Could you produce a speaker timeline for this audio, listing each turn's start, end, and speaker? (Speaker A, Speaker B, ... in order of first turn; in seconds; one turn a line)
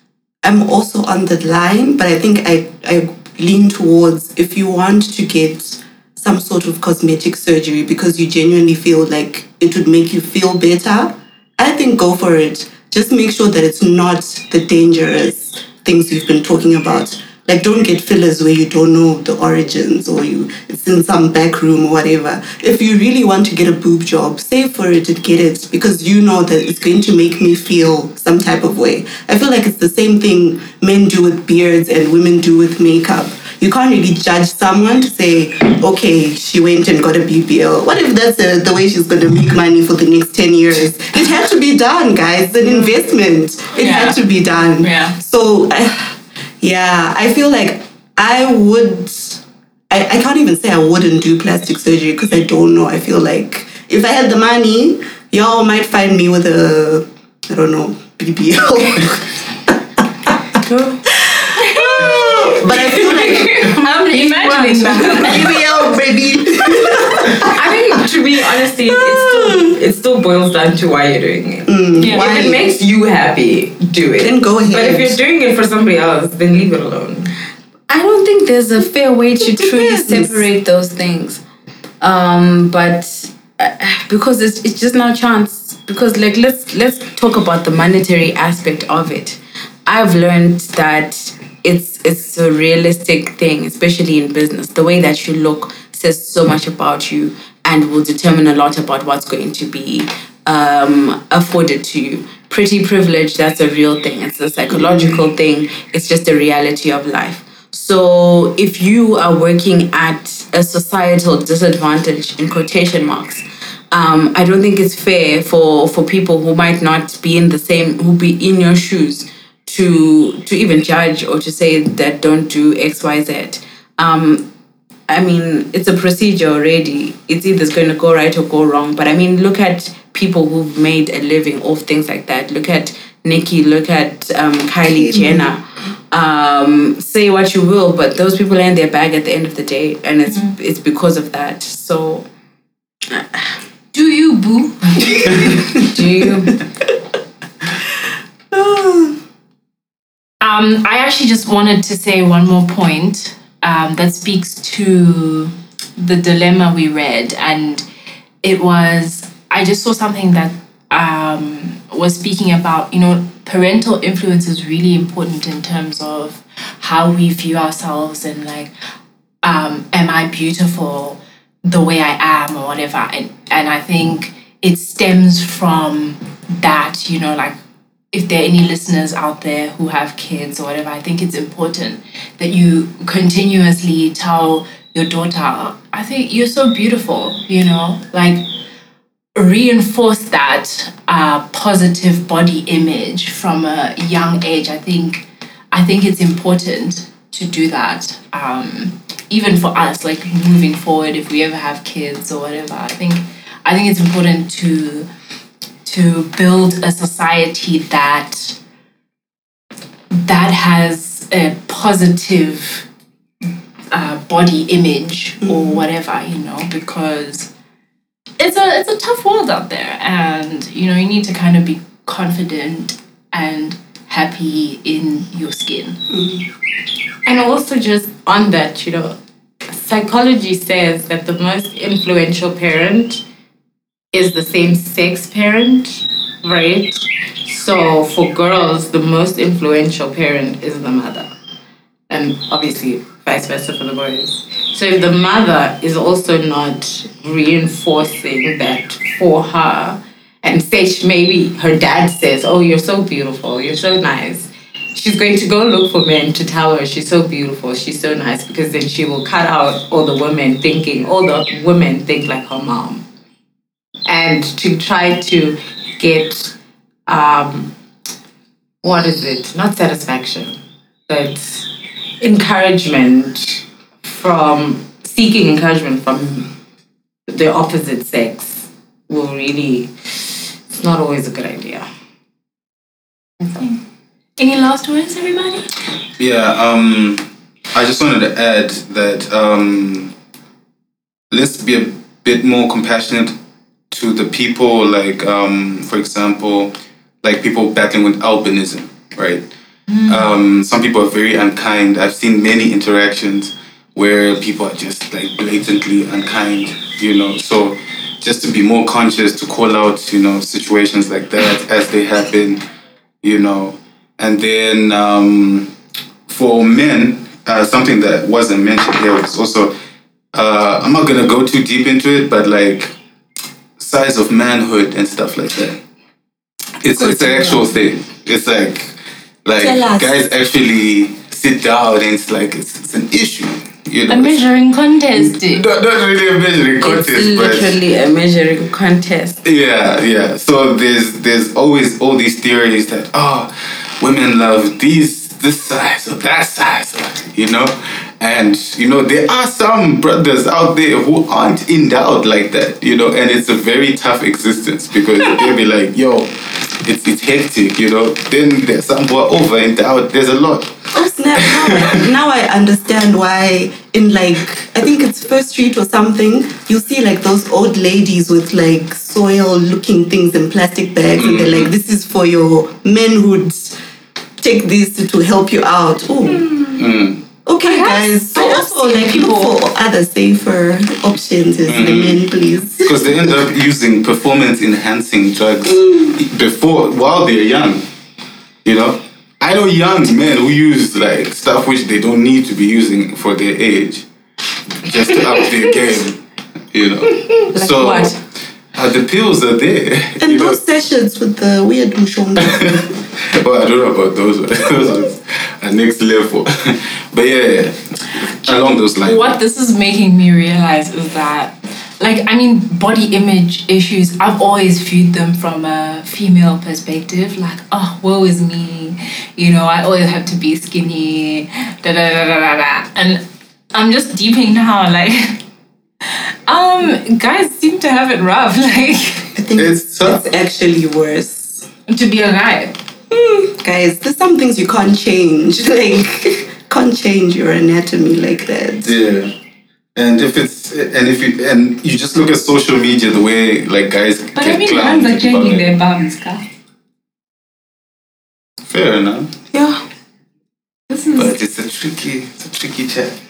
Speaker A: 0.4-59.7
Speaker B: 42.6-43.0
Speaker B: 43.8-44.2
Speaker B: 44.8-45.2
Speaker C: 60.7-61.0
Speaker A: 61.1-63.7
Speaker B: 61.5-65.7
Speaker C: 62.6-65.7
Speaker A: 65.0-67.5
Speaker C: 67.3-77.3
Speaker A: 68.8-69.7
Speaker A: 71.7-72.8
Speaker B: 72.0-72.4
Speaker A: 74.2-75.2
Speaker D: 77.9-81.4
Speaker A: 79.5-80.4
Speaker D: 82.0-124.5
Speaker A: 104.7-105.2
Speaker D: 125.1-142.2
Speaker A: 134.9-135.5
Speaker B: 140.3-140.5
Speaker D: 143.1-143.6
Speaker B: 143.9-146.6
Speaker A: 145.4-145.7
Speaker C: 146.0-146.4
Speaker A: 148.5-149.2
Speaker B: 150.4-157.8
Speaker B: 158.4-168.7
Speaker B: 169.4-177.6
Speaker B: 178.1-188.4
Speaker B: 189.3-205.1
Speaker B: 205.8-208.6
Speaker B: 210.1-212.8
Speaker B: 213.9-217.5
Speaker A: 215.4-215.8
Speaker B: 218.4-226.0
Speaker A: 226.1-226.4
Speaker C: 227.2-229.2
Speaker C: 229.7-233.2
Speaker C: 234.1-241.3
Speaker C: 242.1-263.0
Speaker C: 264.1-266.6
Speaker C: 267.1-267.7
Speaker C: 268.8-270.6
Speaker C: 271.1-271.7
Speaker C: 272.2-276.5
Speaker C: 277.3-281.9
Speaker B: 284.4-285.7
Speaker E: 286.2-290.1
Speaker E: 291.3-293.4
Speaker E: 293.9-299.5
Speaker B: 299.9-300.3
Speaker E: 300.0-312.6
Speaker E: 313.2-315.7
Speaker E: 316.3-319.7
Speaker E: 320.3-322.9
Speaker E: 323.8-325.8
Speaker E: 326.8-334.5
Speaker B: 327.0-327.7
Speaker B: 329.8-330.0
Speaker B: 334.1-335.6
Speaker E: 335.1-337.8
Speaker D: 336.8-339.4
Speaker E: 339.4-362.1
Speaker A: 360.9-373.8
Speaker E: 371.1-371.7
Speaker A: 374.4-376.8
Speaker E: 376.8-377.2
Speaker A: 377.4-383.3
Speaker B: 377.6-379.6
Speaker E: 381.7-382.2
Speaker E: 382.8-387.8
Speaker E: 388.6-394.0
Speaker E: 394.8-396.2
Speaker E: 396.7-398.2
Speaker D: 397.5-398.2
Speaker E: 398.7-400.6
Speaker A: 400.2-402.9
Speaker E: 402.4-409.4
Speaker B: 408.4-425.4
Speaker B: 426.0-429.4
Speaker A: 429.3-431.7
Speaker E: 429.6-430.2
Speaker B: 431.9-432.8
Speaker A: 433.1-438.9
Speaker E: 438.8-439.3
Speaker E: 439.9-445.7
Speaker B: 444.3-446.4
Speaker E: 448.7-449.4
Speaker B: 450.9-451.3
Speaker E: 451.1-453.1